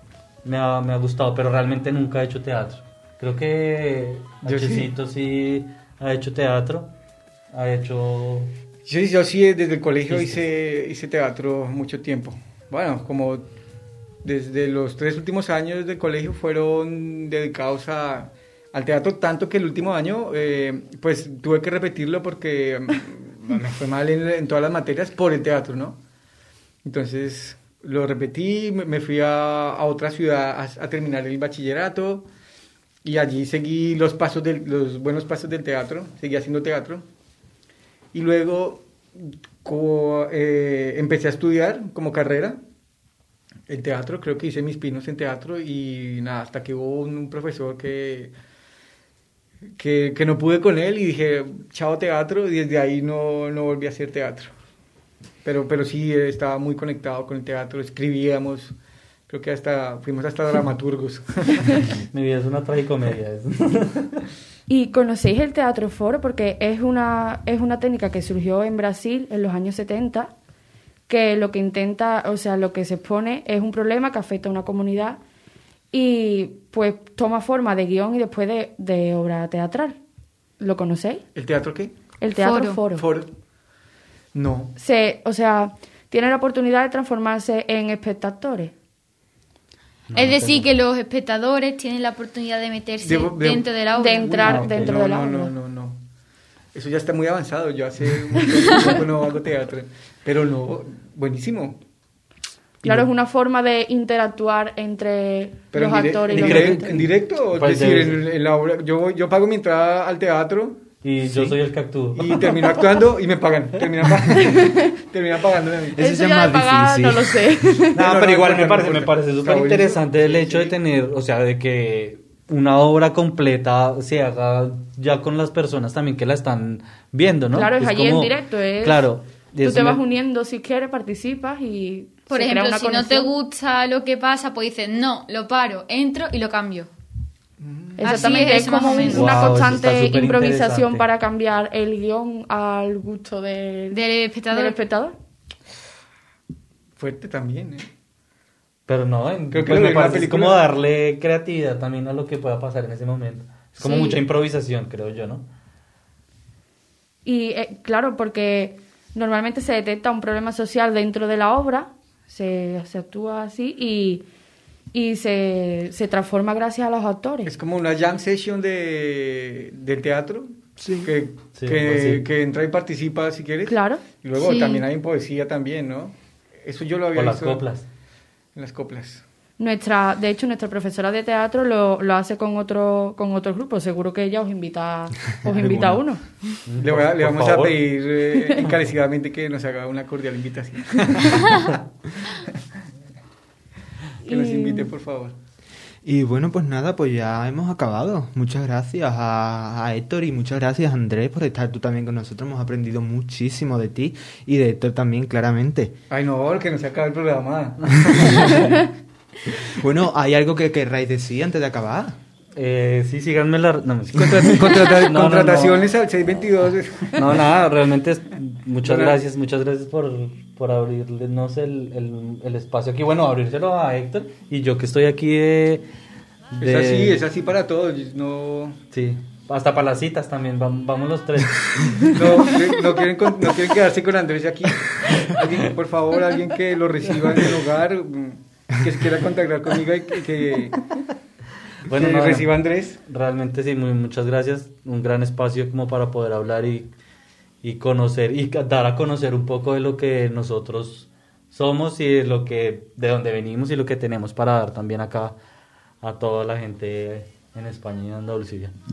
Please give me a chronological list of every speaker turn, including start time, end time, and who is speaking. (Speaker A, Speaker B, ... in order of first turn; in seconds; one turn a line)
Speaker A: 0.4-6.9
Speaker B: 4.5-4.9
Speaker A: 7.5-8.5
Speaker B: 8.9-13.5
Speaker A: 10.1-10.4
Speaker B: 14.2-26.0
Speaker B: 26.8-32.3
Speaker B: 33.0-37.0
Speaker B: 38.1-42.6
Speaker B: 43.7-48.3
Speaker B: 49.8-54.5
Speaker B: 55.4-58.8
Speaker B: 59.3-61.8
Speaker A: 62.1-64.2
Speaker C: 64.7-70.3
Speaker C: 71.1-75.2
Speaker C: 75.9-80.0
Speaker C: 80.6-81.2
Speaker B: 81.3-82.0
Speaker C: 82.2-83.0
Speaker D: 82.4-82.8
Speaker B: 82.9-83.3
Speaker B: 84.3-84.7
Speaker C: 84.8-88.7
Speaker A: 90.1-90.7
Speaker D: 90.2-94.6
Speaker B: 93.0-93.7
Speaker C: 93.9-95.5
Speaker B: 94.3-96.0
Speaker A: 94.4-95.0
Speaker B: 96.7-101.8
Speaker C: 102.8-107.0
Speaker B: 105.7-111.6
Speaker A: 106.2-108.2
Speaker A: 111.0-112.8
Speaker B: 112.2-116.0
Speaker C: 114.3-114.9
Speaker E: 116.0-117.7
Speaker C: 116.0-118.0
Speaker B: 117.9-120.8
Speaker A: 117.9-130.0
Speaker C: 127.5-133.3
Speaker D: 132.3-136.9
Speaker B: 137.6-138.5
Speaker C: 138.0-144.0
Speaker D: 138.0-139.6
Speaker A: 138.9-141.1
Speaker D: 143.9-144.8
Speaker C: 144.5-145.2
Speaker B: 147.0-147.9
Speaker A: 148.9-155.5
Speaker B: 149.5-150.7
Speaker C: 153.9-154.1
Speaker C: 157.2-164.2
Speaker C: 164.9-167.5
Speaker B: 167.4-177.6
Speaker E: 170.8-171.1
Speaker A: 171.6-172.2
Speaker C: 173.7-174.1
Speaker D: 174.4-174.8
Speaker A: 177.1-177.9
Speaker B: 178.6-179.2
Speaker C: 179.6-186.2
Speaker E: 185.3-186.1
Speaker A: 186.7-187.9
Speaker B: 186.8-192.6
Speaker C: 194.2-194.9
Speaker B: 194.3-195.3
Speaker E: 196.1-205.9
Speaker B: 206.1-208.9
Speaker E: 209.7-212.2
Speaker A: 212.6-215.9
Speaker B: 214.1-217.4
Speaker A: 217.1-225.9
Speaker B: 218.8-219.2
Speaker A: 226.5-227.2
Speaker B: 226.6-228.8
Speaker A: 228.9-232.6
Speaker B: 232.1-240.9
Speaker A: 241.9-246.9
Speaker B: 241.9-243.0
Speaker A: 247.6-255.4
Speaker A: 256.0-258.7